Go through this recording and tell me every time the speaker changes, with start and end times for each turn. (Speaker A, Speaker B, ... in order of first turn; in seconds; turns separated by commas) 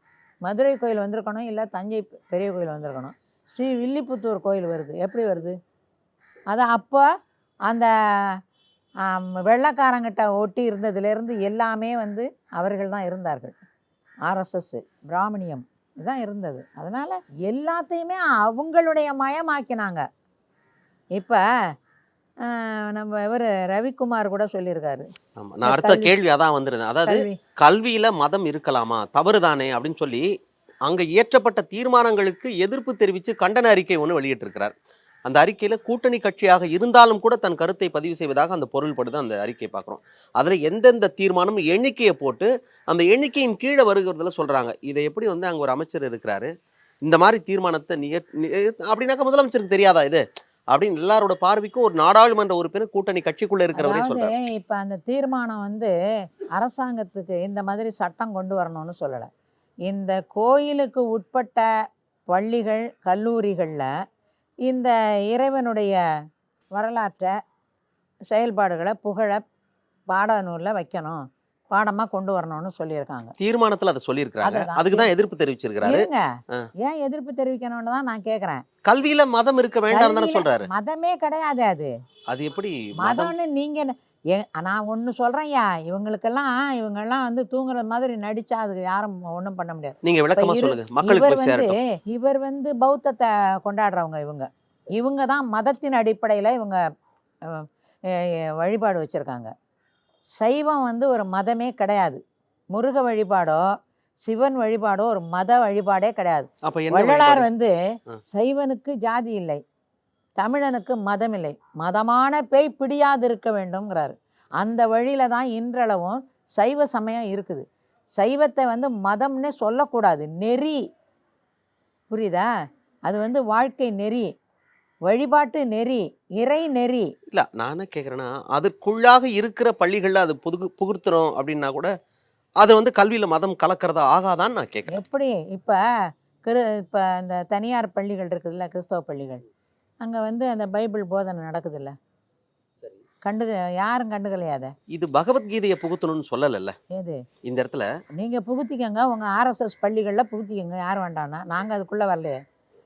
Speaker A: 0.5-5.6, Speaker A: 6.5-7.1, Speaker A: 7.7-8.4, Speaker A: 9.0-13.6, Speaker A: 14.2-20.1, Speaker A: 21.1-21.4, Speaker A: 22.4-25.1, Speaker B: 25.4-30.3, Speaker A: 25.6-26.1, Speaker A: 27.1-27.4, Speaker B: 30.9-34.7, Speaker B: 35.2-46.5, Speaker B: 47.0-54.3, Speaker A: 53.7-55.9, Speaker A: 56.6-59.3, Speaker A: 59.9-61.7, Speaker A: 62.3-63.9, Speaker A: 64.7-66.0, Speaker A: 66.7-67.4, Speaker A: 68.3-69.4, Speaker A: 70.1-73.3, Speaker B: 73.4-76.7, Speaker A: 74.4-75.1, Speaker A: 75.8-76.3, Speaker A: 76.8-78.6, Speaker B: 78.8-80.7, Speaker A: 79.9-81.9, Speaker B: 82.3-83.3, Speaker A: 83.0-96.8, Speaker B: 90.0-91.8, Speaker A: 97.4-99.5, Speaker A: 100.4-102.2, Speaker A: 102.7-107.7, Speaker B: 106.6-107.5, Speaker A: 108.3-109.6, Speaker A: 110.4-117.7, Speaker A: 118.2-120.8, Speaker A: 122.1-122.5, Speaker A: 123.1-124.3, Speaker A: 125.1-127.1, Speaker B: 127.3-131.9, Speaker B: 132.6-135.0, Speaker A: 134.9-135.8, Speaker A: 136.4-139.4, Speaker A: 140.0-141.9, Speaker A: 143.2-144.7, Speaker B: 144.9-146.8, Speaker A: 146.9-147.2, Speaker B: 147.4-147.9, Speaker A: 148.2-152.4